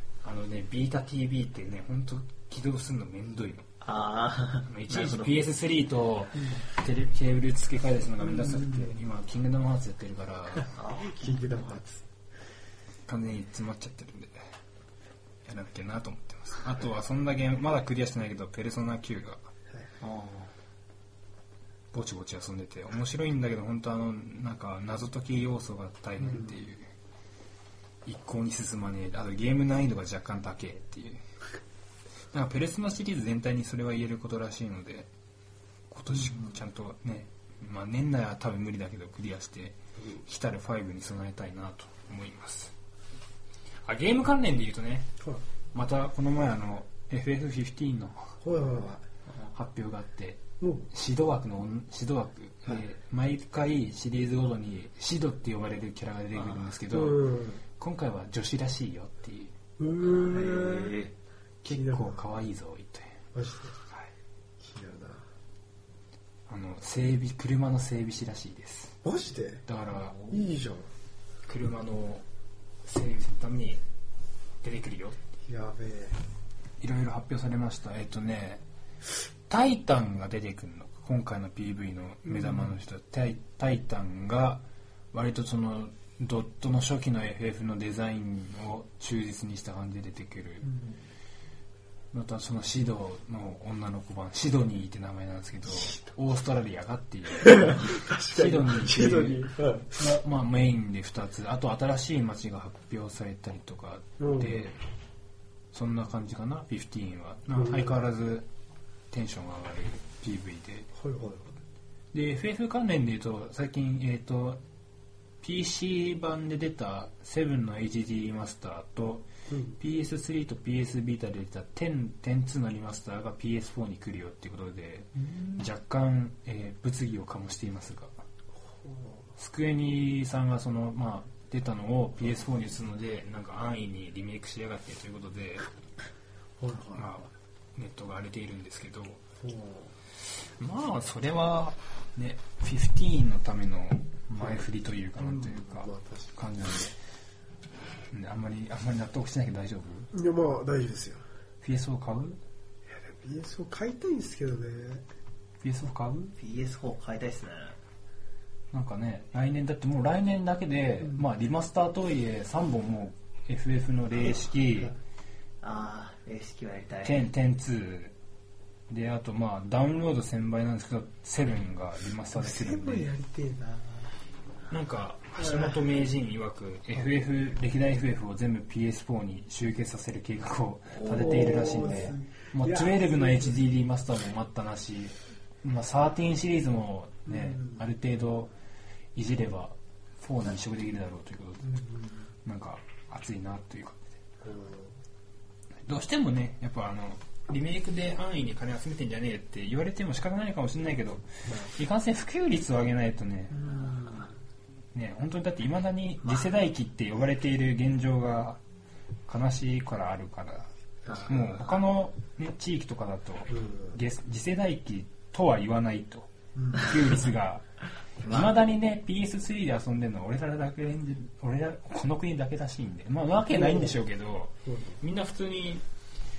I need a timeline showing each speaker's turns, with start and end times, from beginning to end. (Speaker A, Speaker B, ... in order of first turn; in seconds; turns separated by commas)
Speaker A: 0.2-3.7, Speaker B: 3.8-5.5, Speaker A: 4.7-10.7, Speaker B: 10.7-11.6, Speaker C: 11.1-12.0, Speaker A: 13.1-14.4, Speaker A: 15.4-19.4, Speaker B: 20.0-20.5, Speaker A: 21.9-26.9, Speaker A: 28.0-31.2, Speaker A: 32.3-35.1, Speaker A: 35.9-42.7, Speaker A: 43.8-45.1, Speaker A: 45.7-48.4, Speaker C: 48.4-49.0, Speaker A: 49.5-59.5, Speaker C: 50.6-50.9, Speaker B: 56.4-56.6, Speaker C: 56.9-57.6, Speaker C: 59.8-61.0, Speaker B: 60.1-61.1, Speaker C: 61.6-62.2, Speaker A: 61.6-63.2, Speaker C: 63.3-63.7, Speaker C: 64.6-65.2, Speaker A: 66.5-69.0, Speaker C: 69.0-69.6, Speaker A: 69.7-70.2, Speaker C: 70.3-70.9, Speaker A: 71.5-72.2, Speaker A: 72.8-73.8, Speaker A: 74.6-75.2, Speaker C: 75.5-76.2, Speaker A: 76.8-78.6, Speaker A: 79.5-90.7, Speaker C: 82.3-82.7, Speaker A: 92.1-104.8, Speaker C: 97.4-100.0, Speaker C: 104.2-104.7, Speaker A: 105.7-108.5, Speaker C: 107.5-108.0, Speaker A: 109.1-110.9, Speaker C: 111.0-111.6, Speaker A: 112.1-114.6, Speaker A: 115.4-119.3, Speaker C: 119.5-119.8, Speaker A: 119.8-128.1, Speaker C: 128.8-129.2, Speaker A: 129.4-135.7, Speaker C: 136.6-137.1, Speaker A: 136.9-139.2, Speaker C: 139.4-139.9, Speaker A: 140.4-147.0, Speaker C: 145.2-146.3, Speaker A: 148.1-150.1, Speaker C: 150.1-151.2, Speaker A: 151.6-152.4, Speaker C: 152.9-155.0, Speaker A: 155.6-156.3, Speaker B: 156.4-157.8, Speaker A: 158.7-164.9, Speaker B: 165.6-167.2, Speaker A: 167.0-168.1, Speaker A: 168.9-173.1, Speaker C: 172.3-173.8, Speaker A: 174.7-188.5, Speaker B: 181.0-182.1, Speaker C: 181.1-183.6, Speaker C: 187.3-187.8, Speaker A: 189.1-191.8, Speaker C: 191.7-192.1, Speaker A: 192.4-194.2, Speaker C: 194.4-194.9, Speaker A: 195.8-203.7, Speaker C: 203.6-204.3, Speaker A: 204.9-208.6, Speaker A: 209.3-217.7, Speaker B: 211.1-211.3, Speaker C: 213.5-213.9, Speaker C: 216.6-216.8, Speaker B: 218.2-218.5, Speaker A: 218.2-225.8, Speaker C: 223.5-223.9, Speaker C: 224.7-225.0